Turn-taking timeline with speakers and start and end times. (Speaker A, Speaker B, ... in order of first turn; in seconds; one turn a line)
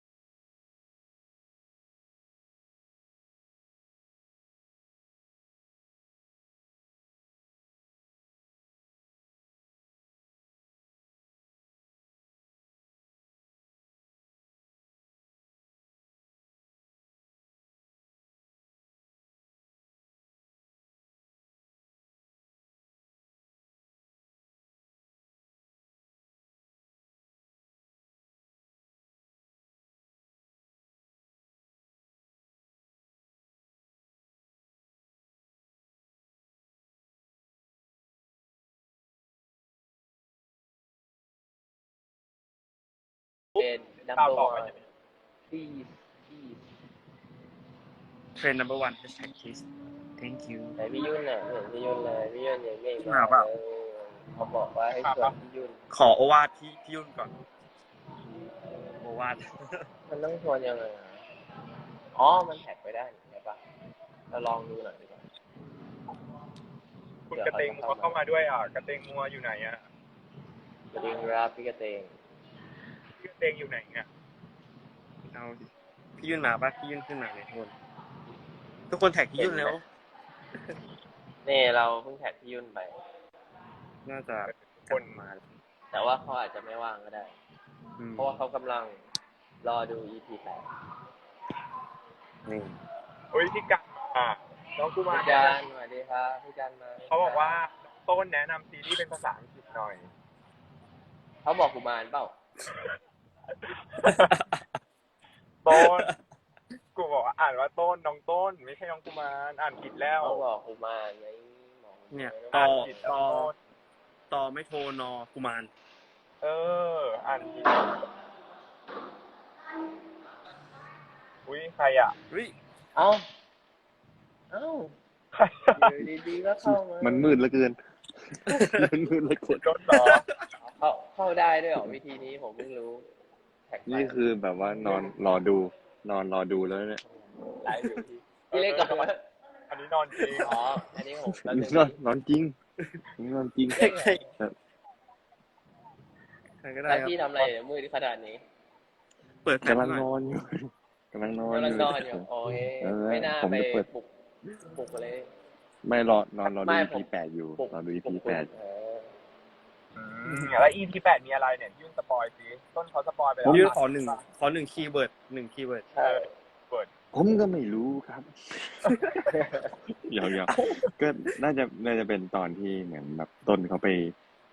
Speaker A: 43.5-44.7
Speaker B: 43.5-44.9
Speaker B: 45.5-46.6
Speaker C: 48.4-49.6
Speaker C: 50.2-50.7
Speaker B: 50.8-55.8
Speaker C: 53.0-53.5
Speaker A: 54.9-55.3
Speaker C: 55.9-57.3
Speaker C: 59.0-59.8
Speaker B: 60.1-61.2
Speaker B: 62.1-63.6
Speaker B: 64.3-65.2
Speaker A: 67.3-69.8
Speaker B: 67.3-68.2
Speaker B: 70.9-72.1
Speaker A: 73.2-74.1
Speaker C: 75.3-75.7
Speaker C: 76.2-77.7
Speaker C: 78.9-79.8
Speaker A: 79.4-79.7
Speaker B: 81.4-82.9
Speaker C: 84.0-85.4
Speaker A: 84.5-85.2
Speaker B: 85.9-87.3
Speaker C: 88.0-88.4
Speaker B: 88.2-89.0
Speaker B: 89.6-90.6
Speaker C: 92.5-92.8
Speaker A: 93.3-95.6
Speaker B: 95.1-97.6
Speaker A: 97.1-100.1
Speaker B: 101.4-102.3
Speaker C: 104.0-104.6
Speaker A: 104.0-104.3
Speaker A: 105.6-106.1
Speaker C: 105.7-106.1
Speaker A: 106.9-110.4
Speaker B: 110.2-113.1
Speaker C: 112.1-113.5
Speaker A: 112.5-113.5
Speaker C: 114.3-115.7
Speaker A: 116.4-118.0
Speaker A: 121.5-122.1
Speaker C: 122.3-122.5
Speaker B: 122.9-123.3
Speaker B: 124.5-124.9
Speaker A: 125.3-125.9
Speaker B: 125.8-127.3
Speaker D: 126.6-129.8
Speaker C: 128.5-128.8
Speaker A: 129.5-130.2
Speaker C: 129.9-130.4
Speaker B: 130.6-133.0
Speaker B: 133.7-134.2
Speaker D: 133.9-137.0
Speaker B: 137.6-139.2
Speaker A: 138.5-139.1
Speaker A: 139.7-140.6
Speaker B: 140.4-142.0
Speaker D: 141.4-142.6
Speaker D: 143.2-144.6
Speaker B: 143.7-144.3
Speaker C: 143.7-144.2
Speaker C: 146.6-147.5
Speaker B: 146.8-148.4
Speaker C: 149.4-150.1
Speaker D: 149.6-153.9
Speaker B: 151.4-155.3
Speaker D: 155.8-158.5
Speaker B: 156.4-159.1
Speaker A: 159.9-164.2
Speaker D: 163.4-163.7
Speaker C: 163.5-165.8
Speaker B: 165.9-166.2
Speaker A: 166.0-166.9
Speaker D: 167.1-169.3
Speaker D: 169.9-174.1
Speaker C: 170.5-170.9